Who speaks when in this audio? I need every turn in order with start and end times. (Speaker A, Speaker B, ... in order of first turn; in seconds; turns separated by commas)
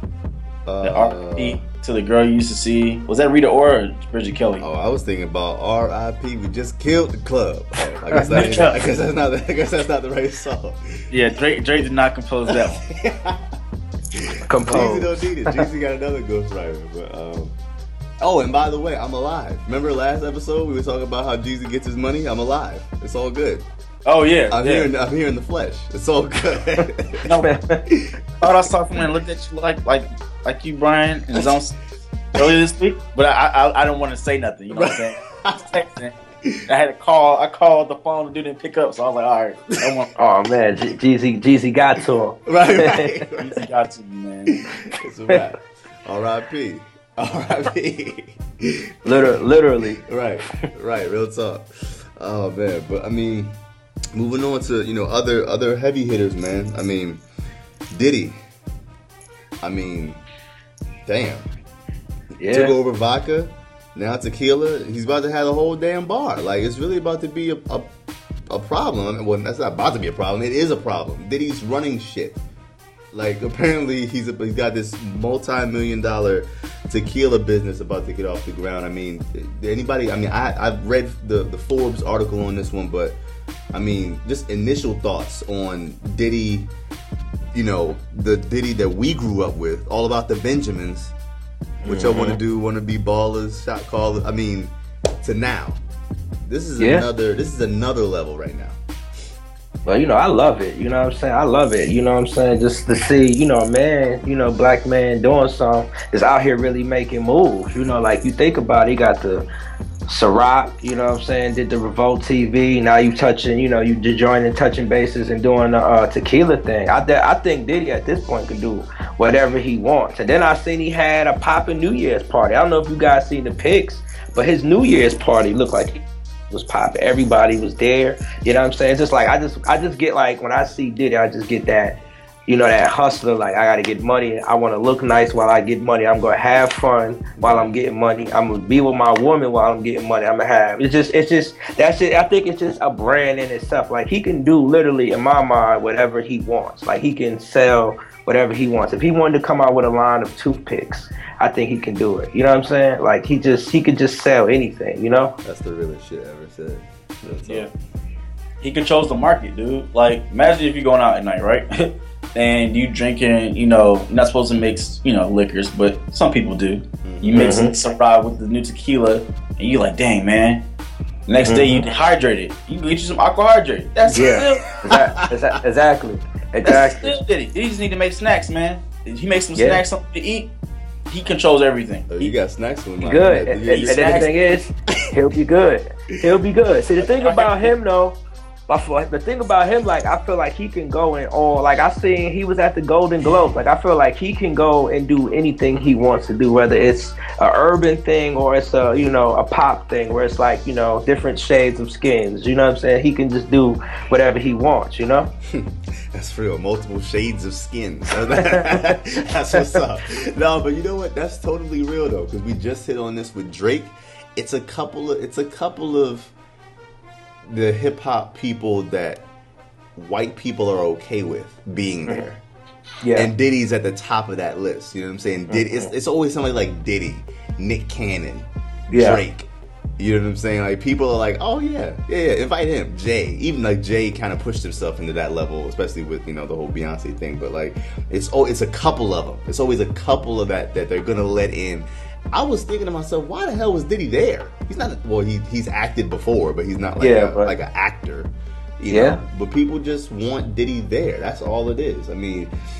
Speaker A: 0.7-1.6, Speaker B: 0.8-4.6, Speaker A: 4.6-11.1, Speaker B: 8.2-8.8, Speaker B: 11.1-12.8, Speaker A: 12.9-13.4, Speaker A: 14.2-17.5, Speaker C: 14.5-15.6, Speaker A: 18.2-23.6, Speaker B: 24.0-24.9, Speaker A: 24.5-27.2, Speaker C: 27.4-27.8, Speaker B: 28.4-31.8, Speaker B: 32.3-36.1, Speaker A: 34.7-35.6, Speaker B: 36.7-40.1, Speaker C: 40.1-43.2, Speaker A: 42.5-43.6, Speaker B: 43.4-44.6, Speaker A: 44.5-49.4, Speaker C: 49.0-50.0, Speaker A: 50.0-53.5, Speaker A: 54.1-57.2, Speaker A: 57.9-58.4, Speaker A: 59.6-60.2, Speaker A: 61.0-61.5, Speaker C: 62.4-62.7, Speaker A: 62.5-67.9, Speaker A: 68.5-72.4, Speaker A: 73.1-83.2, Speaker A: 83.7-86.7, Speaker A: 87.5-91.1, Speaker C: 91.8-92.4, Speaker A: 91.8-95.8, Speaker A: 96.4-98.8, Speaker C: 96.8-97.1, Speaker C: 99.8-109.4, Speaker C: 110.1-155.3, Speaker A: 137.4-137.7, Speaker A: 155.4-157.7, Speaker B: 158.6-170.6, Speaker A: 167.0-167.6, Speaker C: 167.3-167.7, Speaker B: 171.3-174.6, Speaker C: 171.4-171.8, Speaker A: 174.0-174.9, Speaker C: 174.1-177.1, Speaker B: 176.6-180.5, Speaker C: 179.6-179.8, Speaker B: 181.1-182.3, Speaker A: 182.1-184.3, Speaker C: 183.0-188.2, Speaker B: 183.7-184.3, Speaker B: 187.0-187.7, Speaker C: 188.7-205.3, Speaker A: 205.5-216.3, Speaker A: 217.4-219.2, Speaker A: 219.9-222.4, Speaker C: 223.0-223.3, Speaker A: 223.2-252.5, Speaker C: 225.5-225.9, Speaker C: 228.9-229.2, Speaker C: 247.0-247.5, Speaker C: 248.9-249.2